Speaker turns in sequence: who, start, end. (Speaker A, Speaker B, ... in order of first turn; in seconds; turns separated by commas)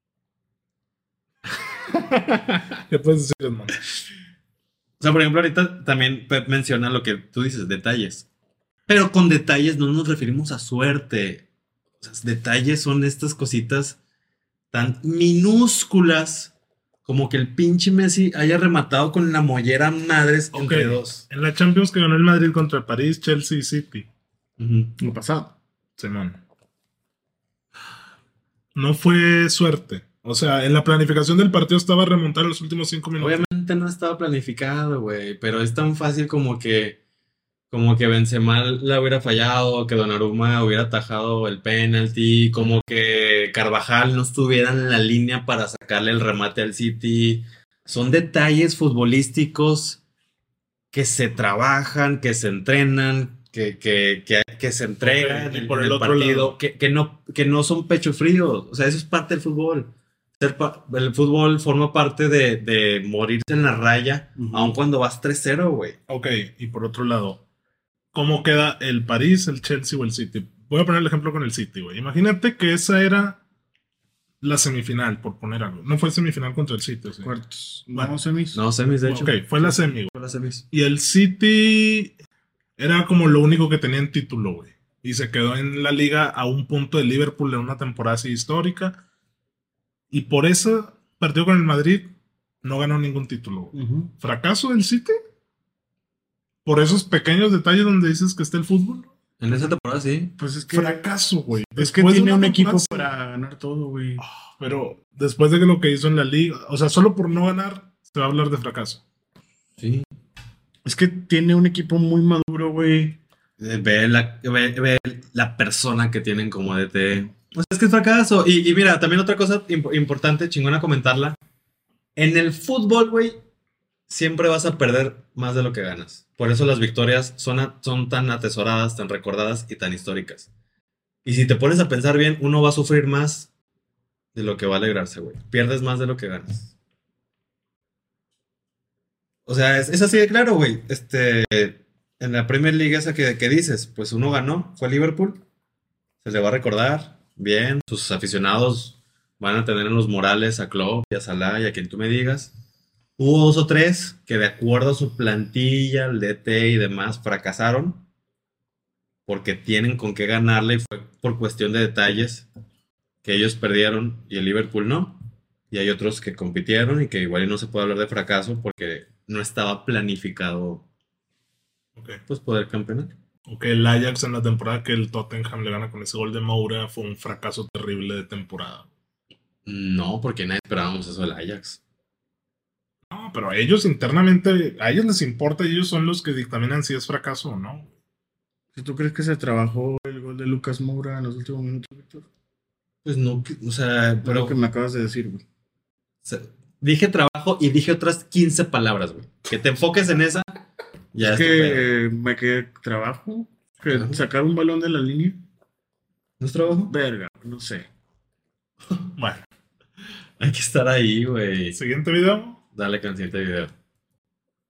Speaker A: 1.9-2.8, Speaker B: 2.9-3.8, Speaker A: 5.0-8.3, Speaker A: 8.9-11.5, Speaker A: 12.0-14.0, Speaker A: 14.7-16.5, Speaker A: 17.1-21.2, Speaker B: 20.5-24.1, Speaker A: 24.6-24.9, Speaker C: 25.0-25.6, Speaker B: 26.0-26.4, Speaker B: 28.8-33.5, Speaker A: 33.2-37.0, Speaker A: 37.7-50.0, Speaker A: 50.9-66.0, Speaker B: 55.0-56.6, Speaker C: 64.4-64.8, Speaker B: 66.1-67.4, Speaker B: 68.1-73.4, Speaker B: 74.4-77.3, Speaker C: 77.2-78.6, Speaker B: 77.9-78.2, Speaker A: 78.5-80.7, Speaker B: 79.0-80.2, Speaker B: 80.7-82.1, Speaker B: 82.8-89.0, Speaker B: 90.1-92.1, Speaker B: 92.6-95.2, Speaker C: 93.7-94.1, Speaker B: 96.7-99.1, Speaker A: 99.4-100.3, Speaker C: 100.4-101.1, Speaker B: 100.7-103.1, Speaker C: 101.8-104.2, Speaker B: 104.2-109.0, Speaker A: 109.8-110.1, Speaker C: 110.8-113.2, Speaker A: 113.6-121.4, Speaker A: 122.2-123.4, Speaker A: 124.1-130.5, Speaker A: 131.2-133.5, Speaker A: 134.3-136.7, Speaker A: 139.5-145.4, Speaker A: 146.2-152.5, Speaker A: 153.2-158.0, Speaker A: 159.3-162.5, Speaker A: 163.2-165.2, Speaker A: 165.7-170.8, Speaker B: 172.0-172.2, Speaker A: 172.3-173.1, Speaker B: 173.5-178.9, Speaker A: 179.7-181.8, Speaker B: 183.1-187.9, Speaker C: 188.8-192.3, Speaker A: 193.0-194.6, Speaker C: 194.2-195.4, Speaker A: 196.2-200.5, Speaker A: 201.1-201.9, Speaker C: 201.2-205.4, Speaker A: 203.9-204.2, Speaker A: 206.4-206.9, Speaker C: 206.8-207.9, Speaker B: 209.2-209.4, Speaker A: 210.4-211.8, Speaker B: 211.7-212.6, Speaker A: 212.7-213.7